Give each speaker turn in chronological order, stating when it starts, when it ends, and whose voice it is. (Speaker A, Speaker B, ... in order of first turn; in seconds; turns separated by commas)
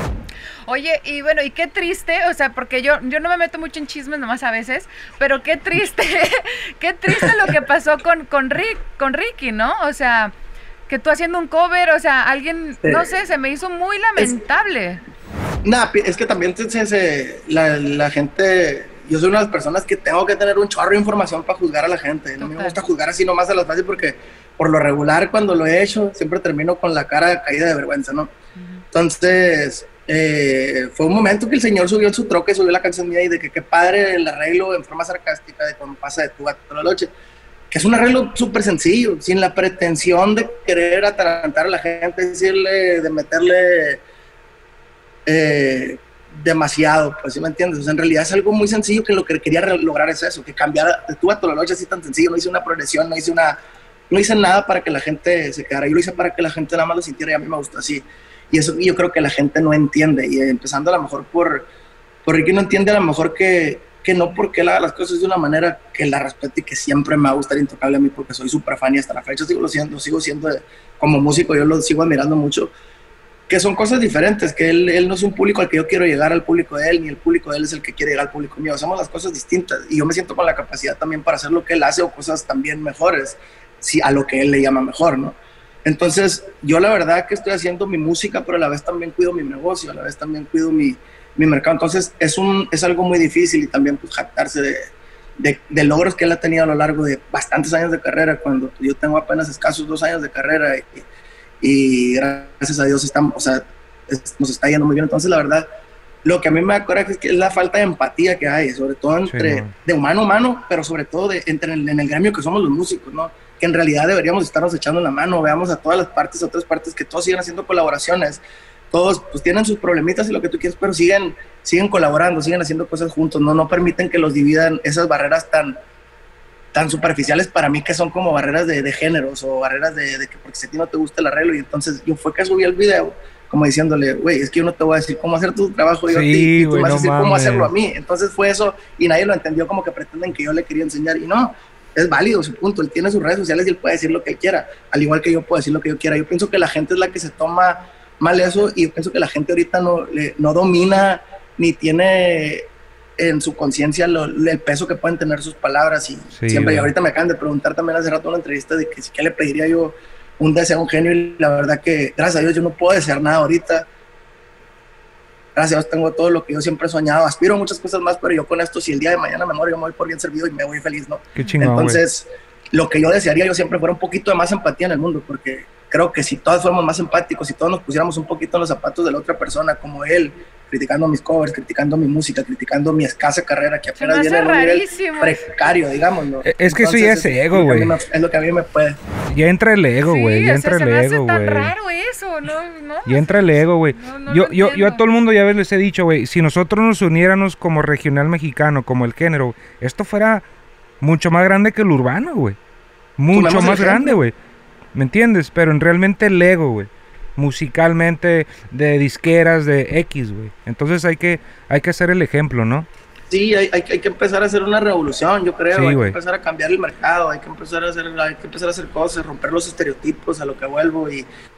Speaker A: 0.7-10.3, Speaker B: 7.1-7.5, Speaker A: 10.9-15.0, Speaker B: 12.8-13.1, Speaker B: 15.6-28.3, Speaker A: 22.4-22.8, Speaker A: 28.6-28.8, Speaker B: 28.9-37.1, Speaker B: 37.7-44.0, Speaker B: 45.2-53.6, Speaker B: 54.1-61.7, Speaker B: 62.2-72.7, Speaker B: 73.5-101.0, Speaker B: 101.6-105.7, Speaker B: 106.2-125.8, Speaker C: 109.3-109.7, Speaker B: 126.7-163.9, Speaker C: 136.1-137.7, Speaker C: 156.4-156.9, Speaker B: 165.6-189.0, Speaker C: 171.3-172.0, Speaker A: 184.0-185.6, Speaker C: 186.4-187.9, Speaker C: 189.3-191.7, Speaker A: 190.0-195.0, Speaker C: 193.1-200.4, Speaker C: 201.0-202.6, Speaker C: 203.2-204.3, Speaker B: 203.3-204.2, Speaker C: 204.9-212.9, Speaker B: 213.3-221.3, Speaker C: 215.7-216.2